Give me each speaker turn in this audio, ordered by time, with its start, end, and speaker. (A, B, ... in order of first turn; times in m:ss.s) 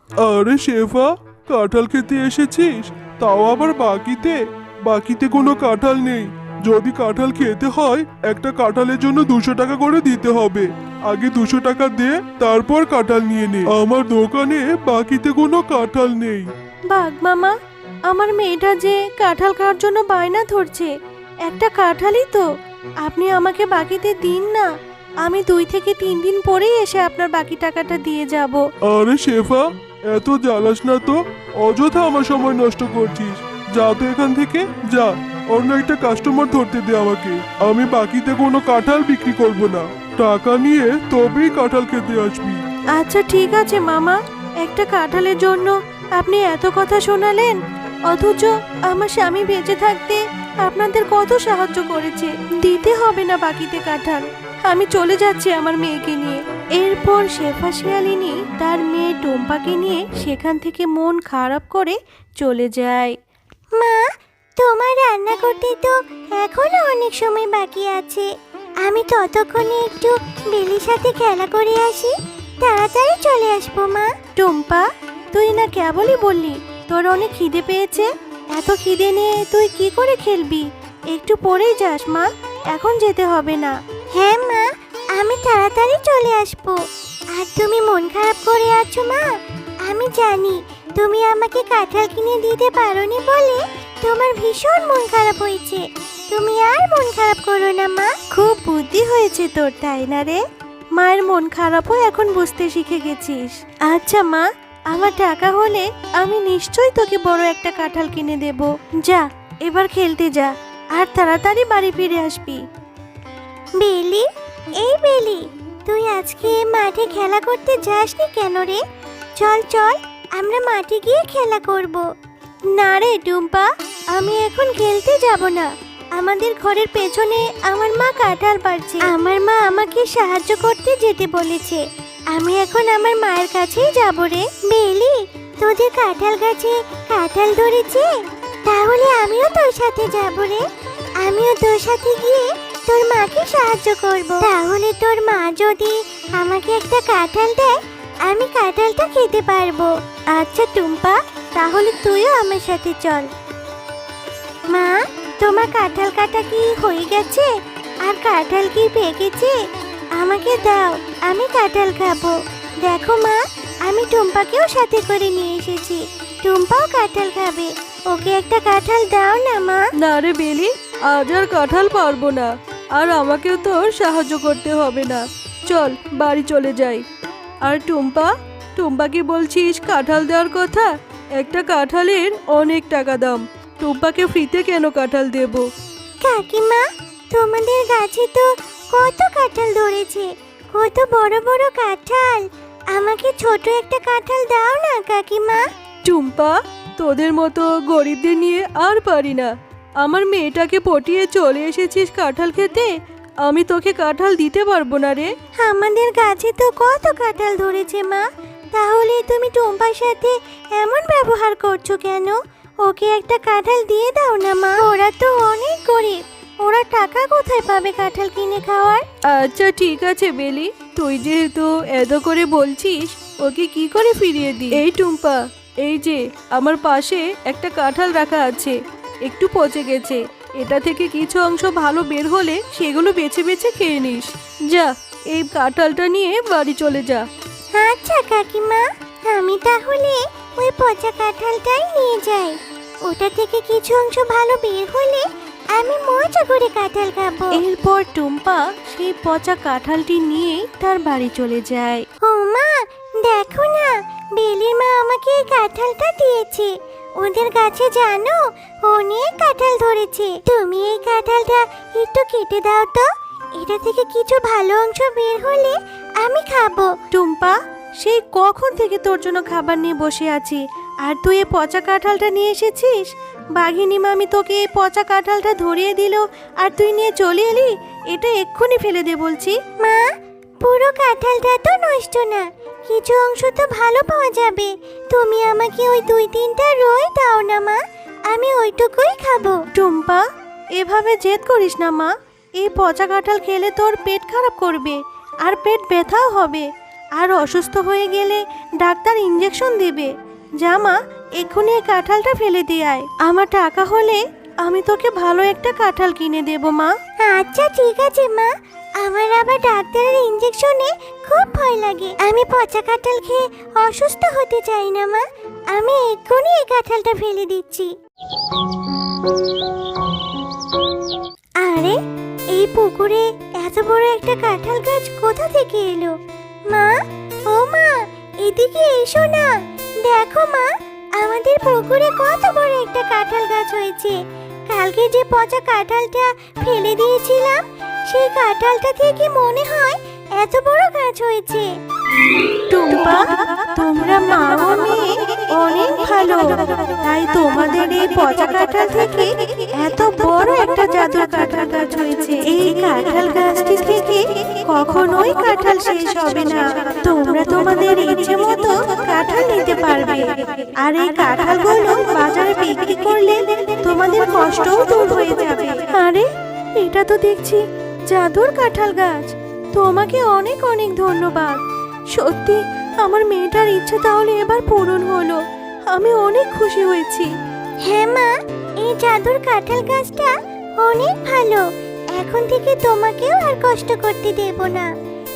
0:00.2-0:16.5 A
0:16.9-0:17.5 B
0:18.1-0:20.9 B
0:21.5-0:22.4 B
0:23.0-0:24.7 B
0:25.2-0:28.6 B
0:28.9-0:42.6 A
0:43.0-0:47.6 B
0:48.1-1:03.1 B
1:03.8-1:04.0 C
1:04.6-1:08.3 C
1:08.8-1:14.1 C
1:14.4-1:23.7 B
1:24.1-1:26.8 C
1:27.4-1:29.2 C
1:29.9-1:38.1 C
1:38.3-1:40.4 B
1:41.0-1:52.6 B
1:53.8-1:54.3 C
1:54.8-1:58.8 C
1:59.4-2:02.0 C
2:02.8-2:03.7 B
2:04.2-2:05.7 C
2:04.3-2:05.3 B
2:06.2-2:09.1 B
2:09.0-2:11.8 C
2:12.3-2:18.1 C
2:18.7-2:20.6 C
2:21.2-2:27.7 C
2:28.3-2:33.3 C
2:34.7-2:37.5 C
2:38.0-2:39.6 C
2:40.2-2:49.8 C
2:50.0-2:57.0 D
2:57.6-3:05.6 D
3:06.2-3:15.6 C
3:16.0-3:22.9 D
3:23.4-3:25.3 D
3:25.6-3:36.2 C
3:36.7-3:38.6 B
3:37.2-3:39.0 C
3:39.3-3:57.2 D
3:57.8-4:02.5 C
4:03.1-4:05.2 C
4:05.8-4:07.5 C
4:07.6-4:12.0 B
4:12.3-4:16.7 C
4:17.2-4:23.1 C
4:23.6-4:26.9 C
4:27.1-4:39.6 B
4:39.8-4:40.1 C
4:40.6-4:47.8 C
4:48.3-4:49.6 C
4:49.8-4:50.2 B
4:50.8-4:56.7 B
4:57.2-5:06.9 B
5:07.2-5:17.9 C
5:21.6-5:22.0 C
5:22.5-5:26.1 C
5:27.5-5:29.5 C
5:30.0-5:34.2 C
5:34.7-5:41.7 C
5:42.4-6:11.6 B
6:12.1-6:17.3 B
6:17.8-6:18.3 C
6:18.8-6:21.6 C
6:22.1-6:24.9 C